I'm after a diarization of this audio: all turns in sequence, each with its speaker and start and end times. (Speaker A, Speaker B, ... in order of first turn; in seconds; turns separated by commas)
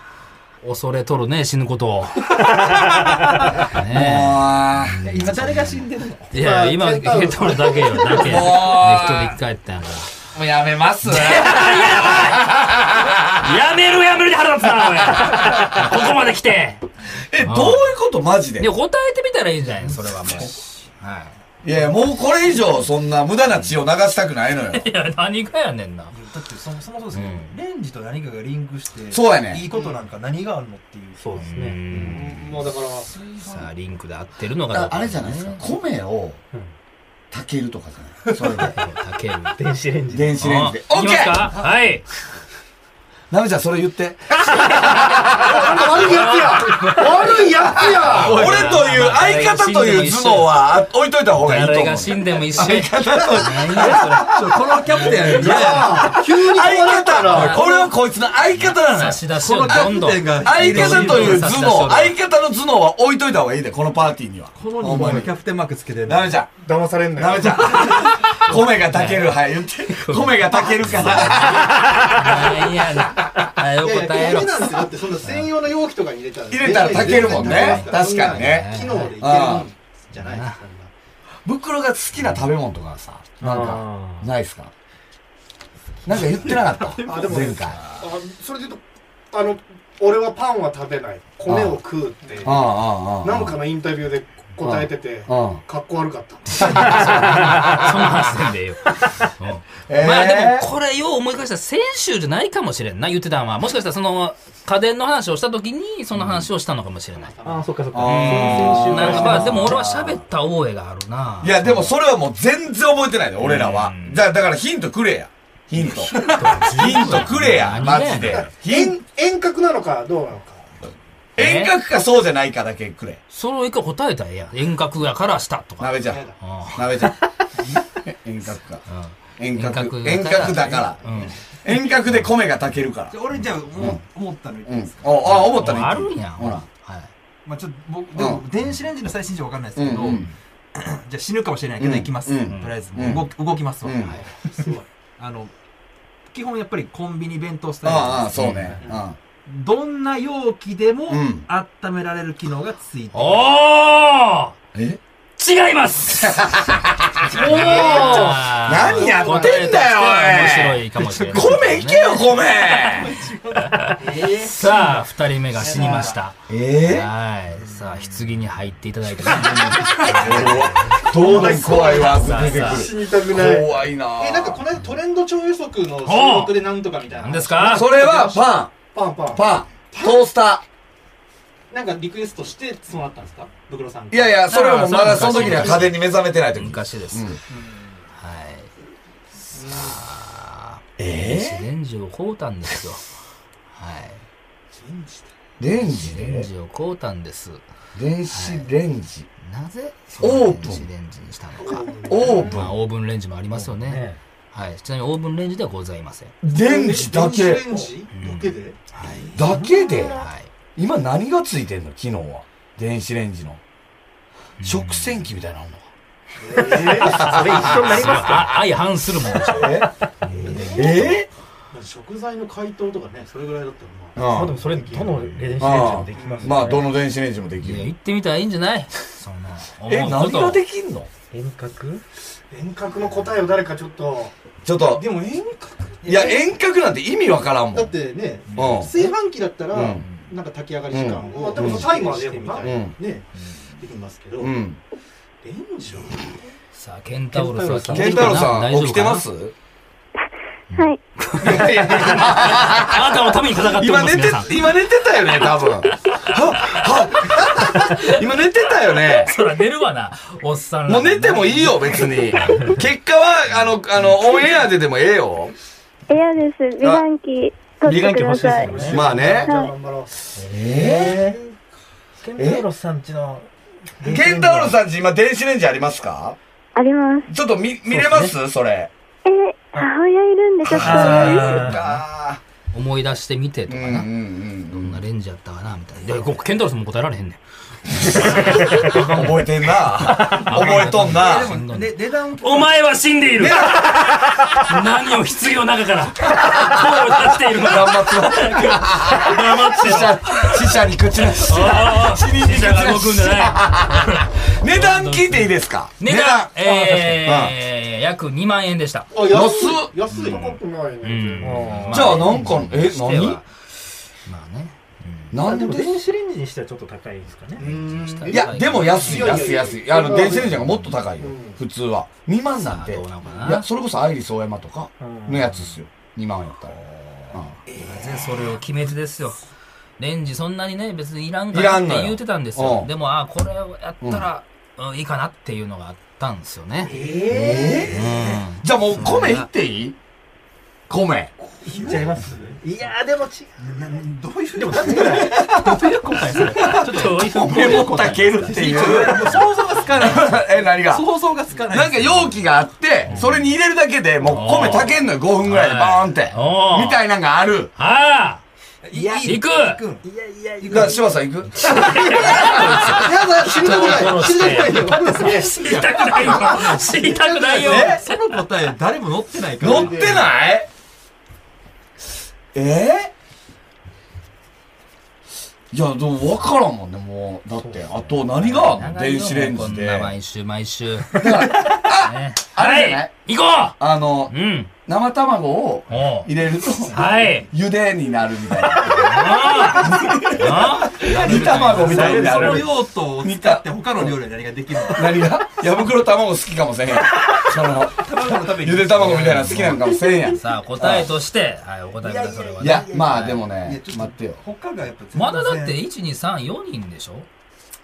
Speaker A: 0.6-10.1, Speaker B: 3.8-5.3, Speaker C: 5.0-6.3, Speaker D: 6.3-8.5, Speaker B: 8.2-9.4, Speaker B: 10.3-13.4, Speaker A: 11.0-12.5, Speaker A: 13.3-16.8, Speaker B: 15.2-16.0, Speaker B: 17.3-18.7, Speaker A: 17.4-17.9, Speaker A: 18.6-21.3, Speaker B: 21.6-24.9, Speaker A: 24.7-26.1, Speaker C: 26.1-31.5, Speaker A: 27.1-27.6, Speaker B: 29.1-29.7, Speaker D: 29.7-30.0, Speaker E: 31.2-31.8, Speaker A: 31.4-32.4, Speaker D: 31.9-33.1, Speaker C: 33.1-33.6, Speaker A: 33.4-35.6, Speaker B: 34.7-36.4, Speaker B: 37.3-38.8, Speaker A: 38.5-39.6, Speaker E: 39.6-40.4, Speaker B: 40.1-41.6, Speaker A: 40.4-42.0, Speaker B: 43.3-46.2, Speaker D: 44.7-48.6, Speaker A: 46.0-50.6, Speaker B: 47.9-65.3, Speaker A: 51.4-55.9, Speaker C: 54.2-56.1, Speaker D: 55.3-57.6, Speaker A: 57.3-57.9, Speaker A: 58.5-62.2, Speaker C: 59.3-61.6, Speaker C: 64.5-66.4, Speaker B: 66.1-66.5, Speaker D: 66.7-67.9, Speaker B: 67.2-72.6, Speaker A: 68.0-75.5, Speaker D: 71.2-71.7, Speaker D: 73.8-80.9, Speaker B: 76.5-79.7, Speaker A: 76.8-79.2, Speaker C: 76.9-77.7, Speaker A: 80.1-80.6, Speaker B: 81.5-84.7, Speaker A: 82.2-82.5, Speaker E: 83.4-84.3, Speaker B: 86.0-87.9, Speaker C: 86.1-87.3, Speaker D: 87.0-88.8, Speaker D: 89.3-92.7, Speaker B: 91.5-91.8, Speaker B: 92.4-93.6, Speaker D: 93.2-97.1, Speaker B: 94.6-95.6, Speaker B: 96.5-98.3, Speaker A: 96.6-107.3, Speaker B: 99.9-100.7, Speaker B: 106.2-106.5, Speaker D: 107.2-107.8, Speaker E: 107.5-109.8, Speaker B: 107.9-110.2, Speaker A: 108.0-111.9, Speaker B: 111.4-119.0, Speaker A: 113.4-114.2, Speaker A: 116.1-118.5, Speaker C: 116.1-116.8, Speaker D: 118.2-120.7, Speaker B: 121.4-123.2, Speaker A: 121.4-121.8, Speaker A: 123.3-127.0, Speaker B: 125.8-127.2, Speaker D: 126.0-126.4, Speaker C: 127.6-127.8, Speaker B: 127.9-128.8, Speaker A: 128.9-131.3, Speaker B: 129.4-133.2, Speaker A: 132.1-132.3, Speaker C: 133.1-135.6, Speaker B: 134.7-136.7, Speaker A: 135.3-137.1, Speaker C: 137.4-144.1, Speaker B: 138.2-138.4, Speaker B: 139.8-140.3, Speaker A: 140.0-140.3, Speaker B: 141.8-143.3, Speaker A: 142.5-142.8, Speaker B: 143.8-144.2, Speaker D: 144.1-144.9, Speaker C: 145.2-145.5, Speaker C: 146.3-148.6, Speaker B: 147.8-149.2, Speaker A: 148.4-148.8, Speaker D: 148.8-149.1, Speaker C: 149.5-153.5, Speaker B: 151.1-151.5, Speaker A: 153.1-154.6, Speaker B: 154.7-155.0, Speaker A: 155.4-172.9, Speaker B: 156.2-163.2, Speaker D: 157.3-159.7, Speaker C: 161.0-161.6, Speaker C: 162.7-164.1, Speaker D: 164.0-165.0, Speaker D: 165.5-166.2, Speaker C: 165.7-166.1, Speaker B: 166.5-167.1, Speaker B: 169.9-174.6, Speaker D: 170.0-180.3, Speaker A: 176.1-176.6, Speaker A: 177.2-177.9, Speaker B: 177.7-178.7, Speaker B: 179.3-180.6, Speaker D: 181.7-184.4, Speaker B: 184.1-187.4, Speaker A: 184.5-187.4, Speaker D: 184.9-185.9, Speaker D: 187.5-188.1, Speaker A: 188.2-188.7, Speaker D: 189.5-190.0, Speaker A: 189.6-193.1, Speaker B: 191.0-191.7, Speaker A: 193.7-194.2, Speaker D: 194.7-195.3, Speaker B: 195.6-196.5, Speaker A: 195.9-197.6, Speaker B: 197.9-199.3, Speaker A: 198.3-198.7, Speaker A: 199.4-206.3, Speaker B: 200.2-200.9, Speaker D: 201.6-202.6, Speaker B: 202.1-202.8, Speaker E: 203.5-204.2, Speaker B: 206.4-207.9, Speaker D: 206.5-209.7, Speaker A: 208.1-209.4, Speaker B: 209.3-213.6, Speaker E: 209.5-210.0, Speaker A: 210.1-210.5, Speaker A: 214.6-215.2, Speaker B: 214.6-215.9, Speaker D: 216.4-217.8, Speaker E: 216.5-218.6, Speaker B: 217.0-218.0, Speaker A: 217.4-221.1, Speaker B: 219.4-219.9, Speaker D: 220.3-221.2, Speaker E: 220.4-220.7, Speaker B: 220.7-221.3, Speaker D: 221.7-225.4, Speaker B: 224.2-224.6, Speaker E: 224.2-226.9, Speaker B: 225.6-227.9, Speaker D: 226.2-226.6, Speaker A: 227.6-230.6, Speaker B: 229.9-231.1, Speaker E: 231.3-232.0, Speaker D: 232.5-236.5, Speaker B: 234.7-235.1, Speaker B: 236.1-237.9, Speaker D: 237.7-244.6, Speaker A: 238.5-238.9, Speaker B: 238.5-239.1, Speaker B: 239.7-240.1, Speaker A: 240.1-240.3, Speaker B: 240.9-241.9, Speaker E: 241.3-242.7, Speaker C: 241.4-242.3, Speaker B: 242.6-243.0, Speaker B: 244.4-244.8, Speaker D: 245.4-246.5, Speaker A: 246.7-249.2, Speaker E: 247.3-248.4, Speaker D: 247.8-248.1, Speaker B: 247.9-249.5, Speaker A: 250.7-254.6, Speaker F: 250.8-251.0, Speaker B: 251.4-259.3, Speaker D: 251.5-252.2, Speaker A: 255.9-258.2, Speaker A: 258.9-262.8, Speaker B: 260.9-265.5, Speaker F: 266.1-269.7, Speaker B: 267.9-269.5, Speaker E: 267.9-269.1, Speaker D: 268.6-270.2, Speaker E: 270.4-271.4, Speaker B: 270.4-271.2, Speaker E: 272.2-274.8, Speaker B: 272.4-272.6, Speaker B: 274.0-276.4, Speaker F: 276.8-277.3, Speaker B: 277.3-278.9, Speaker E: 277.9-278.4, Speaker F: 279.3-281.7, Speaker B: 280.6-282.4, Speaker E: 280.8-281.8, Speaker A: 281.6-282.0, Speaker A: 282.7-284.1, Speaker B: 283.7-285.0, Speaker A: 284.7-300.8, Speaker B: 288.1-291.6, Speaker C: 290.6-292.8, Speaker B: 293.4-294.4, Speaker B: 296.3-307.6, Speaker A: 301.3-309.1, Speaker E: 306.6-307.2, Speaker D: 309.1-311.8, Speaker B: 309.2-309.9, Speaker A: 310.1-313.5, Speaker E: 311.4-312.4, Speaker B: 311.9-313.4, Speaker A: 314.3-315.4, Speaker B: 315.3-316.0, Speaker E: 315.4-317.7, Speaker D: 317.6-321.6, Speaker A: 317.6-319.5, Speaker B: 318.3-326.8, Speaker A: 322.6-323.7, Speaker E: 325.0-325.7, Speaker A: 327.7-329.4, Speaker A: 330.0-336.9, Speaker B: 331.5-332.9, Speaker B: 334.0-334.3, Speaker C: 336.9-337.9, Speaker D: 336.9-337.9, Speaker E: 336.9-337.8, Speaker B: 337.3-340.0, Speaker A: 337.9-339.5, Speaker B: 340.9-341.3, Speaker C: 341.6-342.5, Speaker E: 341.6-343.8, Speaker D: 341.7-342.1, Speaker C: 343.6-352.4, Speaker E: 344.6-345.7, Speaker B: 345.3-345.9, Speaker E: 346.2-347.9, Speaker B: 346.5-351.1, Speaker A: 346.6-348.4, Speaker E: 348.7-349.5, Speaker B: 351.7-357.7, Speaker A: 354.2-357.0, Speaker A: 357.8-358.4, Speaker C: 358.8-360.1, Speaker E: 358.9-359.3, Speaker A: 359.2-359.8, Speaker E: 360.0-361.0, Speaker C: 360.6-361.0, Speaker B: 360.7-363.1, Speaker A: 361.6-368.4, Speaker D: 362.7-365.6, Speaker C: 365.2-370.3, Speaker B: 367.6-368.0, Speaker B: 369.6-370.7, Speaker D: 369.6-370.3, Speaker B: 372.5-373.1, Speaker B: 375.7-380.2, Speaker A: 378.4-383.8, Speaker B: 381.1-383.1, Speaker B: 383.8-394.2, Speaker A: 384.3-384.7, Speaker A: 385.9-386.3, Speaker A: 386.9-387.5, Speaker C: 386.9-387.5, Speaker A: 388.7-392.7, Speaker C: 391.1-395.3, Speaker B: 394.9-401.1, Speaker C: 397.8-399.7, Speaker A: 398.9-403.4, Speaker C: 402.0-405.8, Speaker B: 402.6-404.4, Speaker A: 405.1-407.3